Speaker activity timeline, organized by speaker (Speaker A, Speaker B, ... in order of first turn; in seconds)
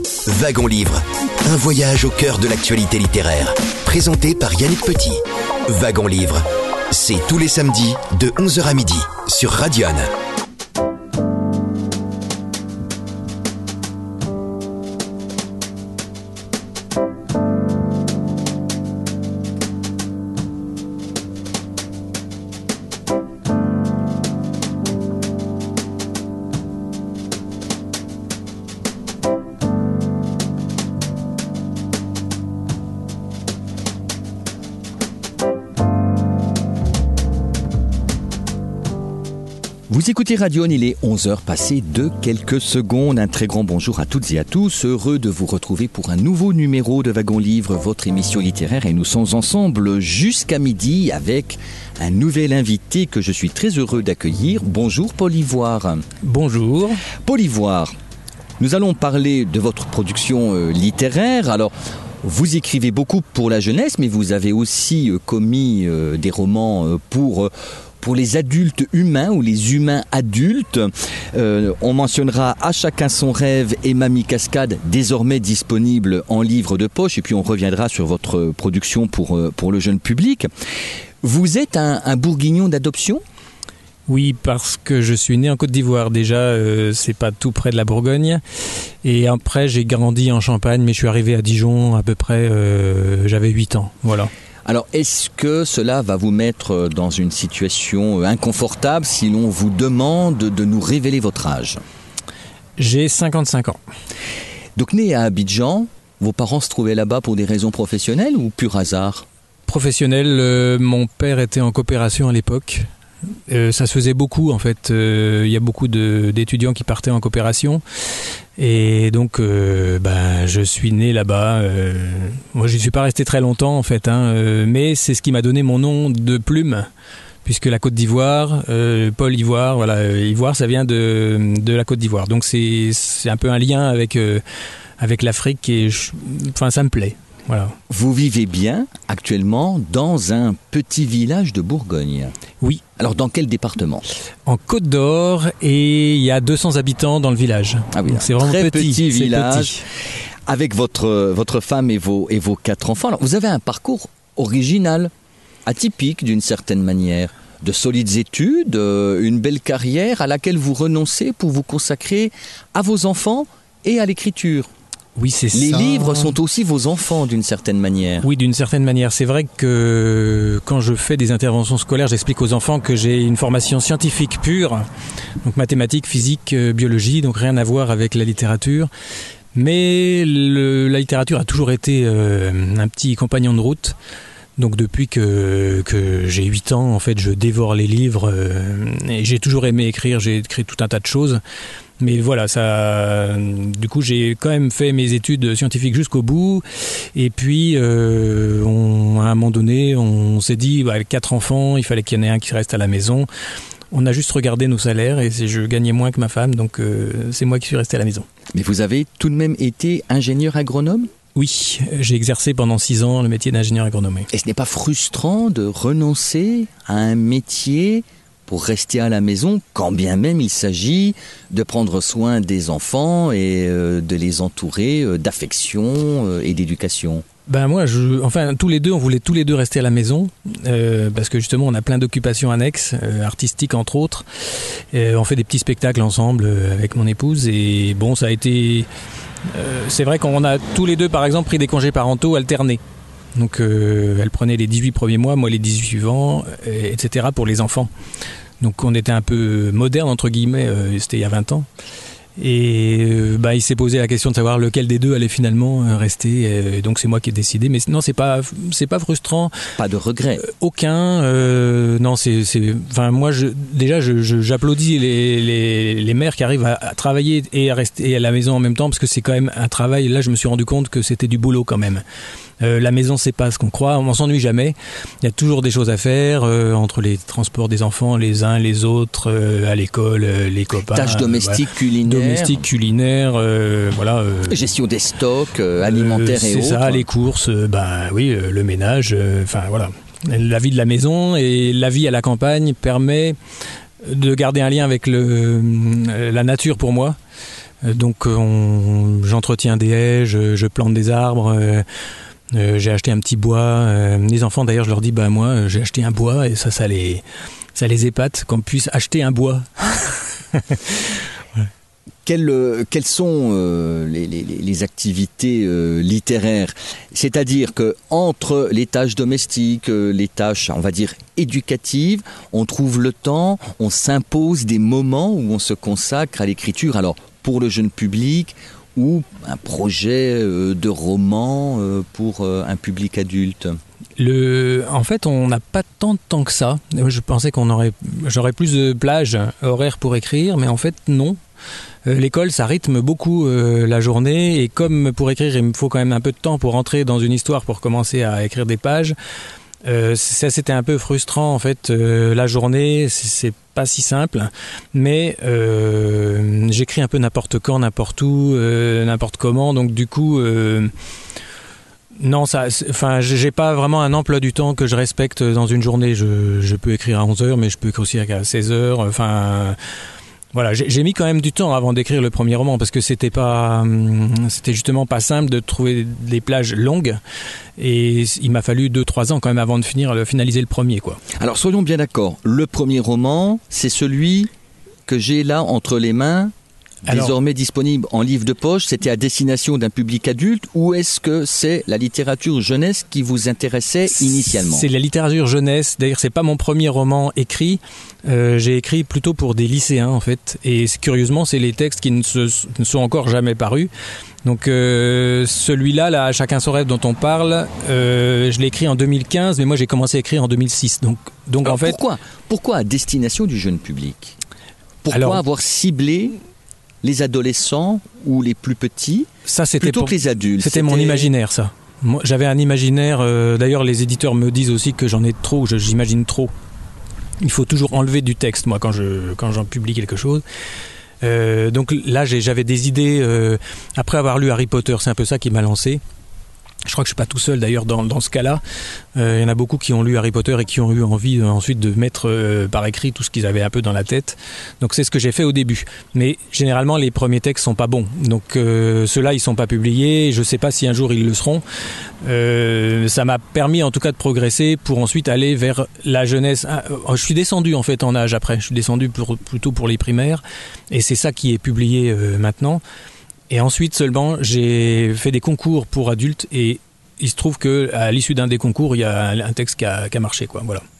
Speaker A: 0.2-10.1
Speaker B: 39.9-56.0, 57.2-57.9, 58.6-80.5, 81.2-83.2, 94.7-101.8, 104.8-109.2, 137.9-142.3, 143.0-144.0, 147.9-149.8, 150.5-155.1, 155.7-164.7, 165.5-168.3, 208.5-211.1, 214.3-227.2, 259.8-260.4, 280.9-282.6, 284.5-287.1, 312.2-333.8, 381.3-384.5, 385.1-386.5, 387.1-394.9, 411.6-414.4, 415.0-416.4, 417.0-419.3, 419.8-421.3
Speaker C: 56.2-57.0, 84.1-88.4, 89.0-94.3, 102.8-103.8, 109.7-112.9, 113.5-117.8, 118.6-126.9, 127.4-134.4, 135.0-137.8, 144.4-149.8, 165.2-166.3, 168.2-174.8, 175.4-178.9, 179.5-183.9, 184.6-191.4, 192.0-203.3, 203.9-208.2, 211.3-214.3, 227.5-234.2, 234.9-238.9, 239.5-242.8, 243.3-247.9, 248.6-251.7, 252.4-259.5, 260.4-272.0, 272.6-284.6, 285.8-293.4, 294.0-297.2, 297.8-301.8, 302.5-307.2, 307.7-310.9, 334.2-341.4, 342.1-349.1, 349.8-360.9, 362.2-369.8, 370.5-377.2, 377.8-381.2, 387.1-387.4, 394.2-403.9, 404.4-412.0, 415.1-415.4, 419.5-426.5, 427.4-430.4, 431.2-436.0, 436.8-438.6, 439.1-451.6, 452.2-462.8, 463.5-470.8